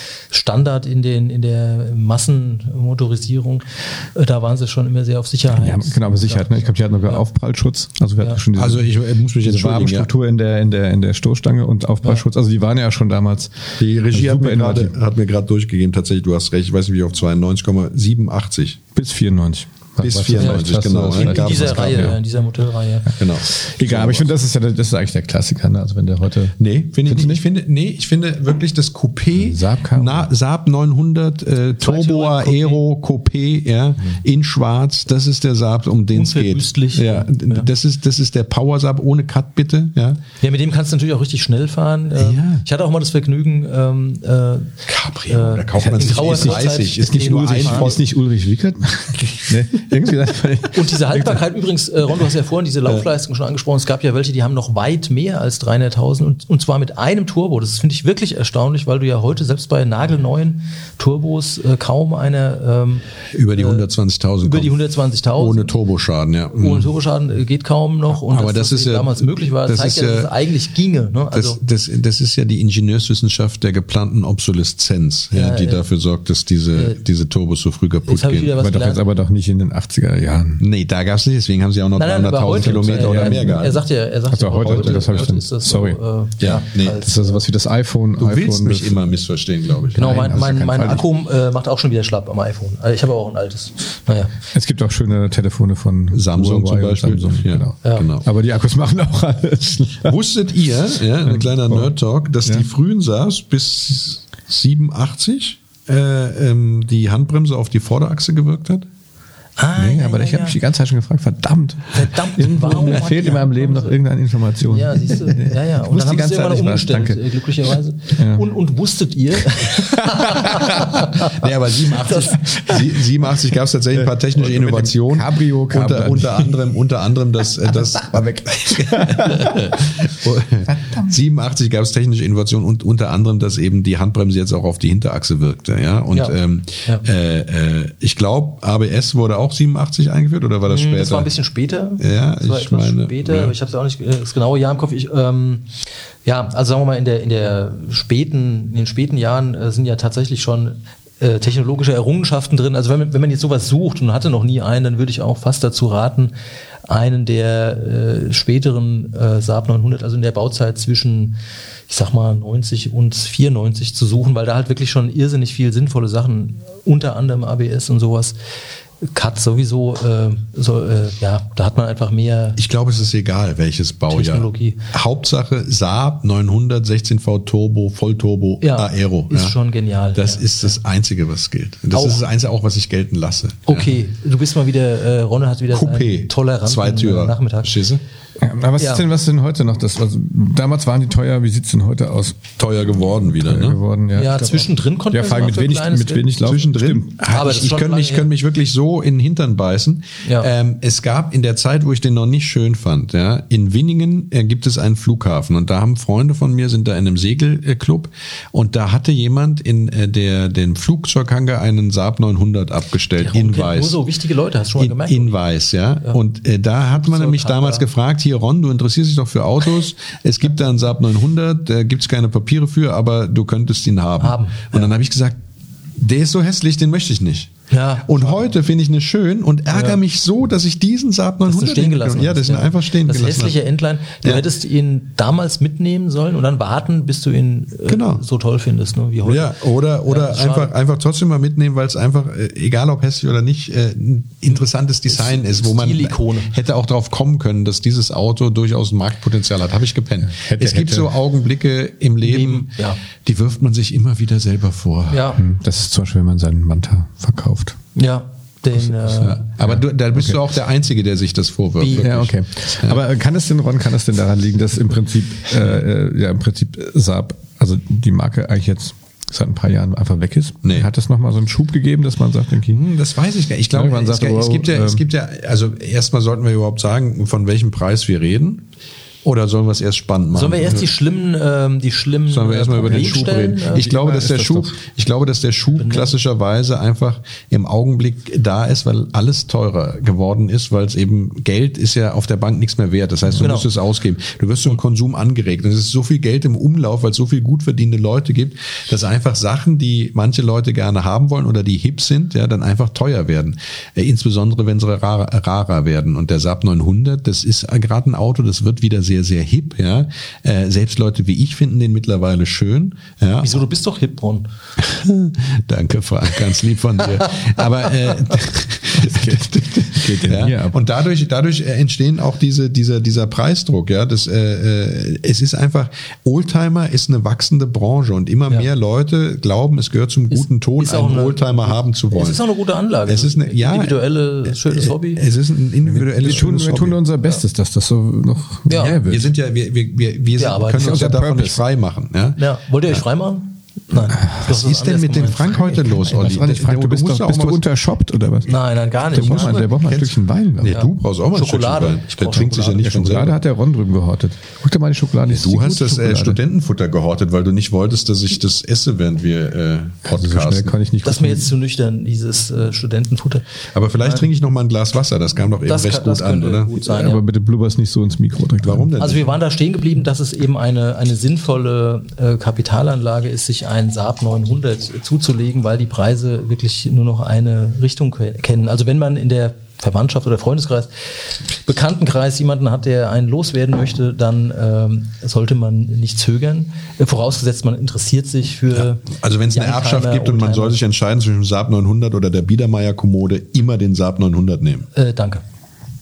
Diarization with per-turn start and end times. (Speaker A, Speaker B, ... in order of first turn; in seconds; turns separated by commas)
Speaker A: 0.3-6.5, Speaker B: 5.5-8.9, Speaker C: 8.6-10.1, Speaker B: 9.4-14.9, Speaker C: 13.8-18.8, Speaker B: 18.9-22.2, Speaker C: 20.0-22.2, Speaker A: 20.4-23.1, Speaker C: 23.2-24.3, Speaker B: 23.5-27.4, Speaker C: 26.6-40.2, Speaker B: 29.3-30.3, Speaker A: 31.8-32.8, Speaker A: 36.1-37.7, Speaker A: 40.4-44.7, Speaker C: 42.2-42.6, Speaker C: 44.9-48.0, Speaker A: 45.3-47.9, Speaker B: 45.8-51.4, Speaker C: 49.2-49.6, Speaker A: 50.7-63.0, Speaker C: 63.3-64.7, Speaker A: 63.5-63.9, Speaker A: 64.4-65.7, Speaker C: 65.3-66.9, Speaker A: 66.5-71.6, Speaker C: 68.1-70.3, Speaker C: 71.3-78.5, Speaker A: 75.3-75.8, Speaker A: 78.1-79.0, Speaker B: 78.6-80.6, Speaker C: 80.6-83.8, Speaker A: 82.0-87.4, Speaker B: 82.6-83.7, Speaker B: 84.3-86.0, Speaker C: 84.5-85.3, Speaker C: 86.4-87.0, Speaker B: 87.0-89.0, Speaker C: 88.2-90.4, Speaker B: 89.8-91.0, Speaker A: 90.0-94.3, Speaker B: 94.5-100.2, Speaker C: 96.1-98.3, Speaker C: 100.0-108.8, Speaker B: 101.2-101.9, Speaker A: 109.6-110.6, Speaker B: 109.8-117.2, Speaker A: 111.9-113.9, Speaker A: 114.7-122.8, Speaker B: 118.2-118.5, Speaker B: 120.0-120.8, Speaker C: 121.2-141.3, Speaker B: 124.0-126.6, Speaker B: 127.7-129.9, Speaker B: 130.7-131.1, Speaker A: 136.1-137.0, Speaker A: 140.7-145.7, Speaker C: 142.0-143.5, Speaker A: 146.2-156.3, Speaker A: 156.8-161.4, Speaker A: 161.9-168.3, Speaker A: 169.1-172.6, Speaker C: 172.6-179.6, Speaker A: 174.1-174.8, Speaker A: 178.6-180.7, Speaker C: 180.1-184.0, Speaker A: 181.9-182.2, Speaker A: 183.7-187.7, Speaker C: 185.7-188.0, Speaker B: 188.4-192.5, Speaker A: 188.8-189.0, Speaker C: 192.6-193.8, Speaker B: 193.2-197.1, Speaker A: 194.1-196.3, Speaker C: 196.4-214.0, Speaker A: 197.3-198.3, Speaker A: 200.2-200.5, Speaker A: 213.2-215.3, Speaker C: 214.8-225.4, Speaker A: 217.0-217.8, Speaker A: 224.2-224.9, Speaker C: 225.9-227.5, Speaker A: 227.7-228.4, Speaker C: 228.1-233.6, Speaker A: 229.7-230.0, Speaker A: 231.4-239.5, Speaker C: 237.9-238.2, Speaker C: 239.2-255.3, Speaker A: 240.1-240.7, Speaker A: 245.1-246.5, Speaker B: 250.2-251.1, Speaker A: 252.2-253.0, Speaker A: 255.1-255.4, Speaker B: 255.4-257.8, Speaker A: 257.9-259.4, Speaker B: 258.8-260.4, Speaker C: 259.2-263.0, Speaker A: 261.8-262.1, Speaker B: 262.0-272.8, Speaker C: 270.6-270.9, Speaker C: 272.7-278.6, Speaker B: 273.7-275.0, Speaker C: 279.2-280.9, Speaker A: 280.3-283.8, Speaker C: 282.3-313.6, Speaker B: 282.8-284.8, Speaker A: 285.8-286.1, Speaker A: 293.4-293.7, Speaker A: 313.4-314.5, Speaker C: 314.8-332.4, Speaker A: 317.2-318.2, Speaker B: 318.9-320.8, Speaker A: 330.3-335.2, Speaker C: 333.1-337.0, Speaker B: 335.8-339.3, Speaker A: 338.7-339.0, Speaker C: 339.0-342.4, Speaker A: 340.4-341.0, Speaker B: 340.8-341.6, Speaker A: 342.4-346.1, Speaker C: 344.2-347.6, Speaker B: 346.1-348.6, Speaker A: 348.5-349.6, Speaker B: 349.1-350.8, Speaker C: 349.1-353.4, Speaker A: 350.7-352.8, Speaker B: 352.4-356.4, Speaker C: 355.3-360.8, Speaker B: 360.1-361.5, Speaker A: 361.0-363.4, Speaker C: 363.7-366.8, Speaker A: 364.0-364.2, Speaker A: 365.6-367.2, Speaker B: 366.9-368.9, Speaker C: 368.6-369.3, Speaker A: 369.0-380.9, Speaker A: 381.6-390.8, Speaker C: 388.7-394.9, Speaker A: 394.9-395.4